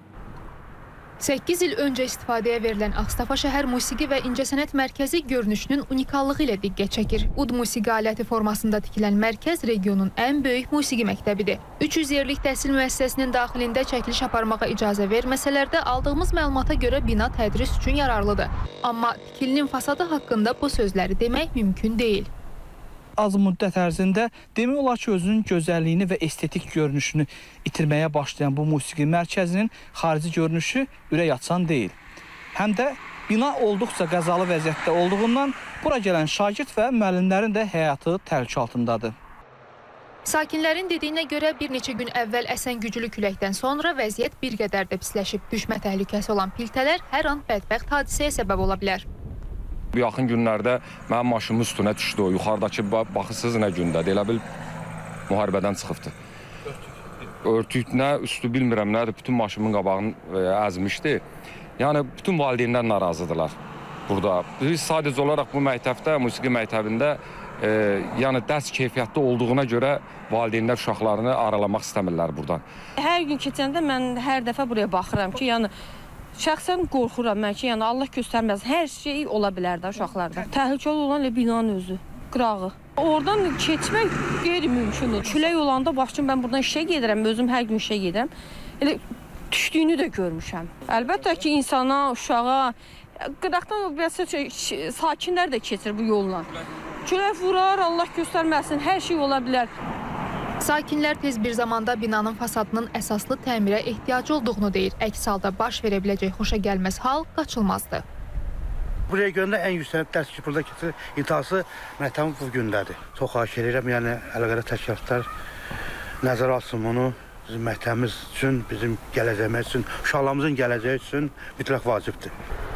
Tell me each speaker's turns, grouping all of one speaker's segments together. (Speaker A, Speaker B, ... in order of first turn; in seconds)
Speaker A: 1.2-22.3, 40.3-49.0, 100.6-108.0
Speaker B: 23.2-32.0, 32.5-39.1
Speaker C: 49.9-54.4, 55.3-56.1, 57.4-61.2, 61.8-63.5, 64.1-72.6
Speaker D: 73.0-75.7, 76.4-92.8, 93.3-96.5, 97.0-99.7
Speaker E: 109.1-115.3, 116.2-122.3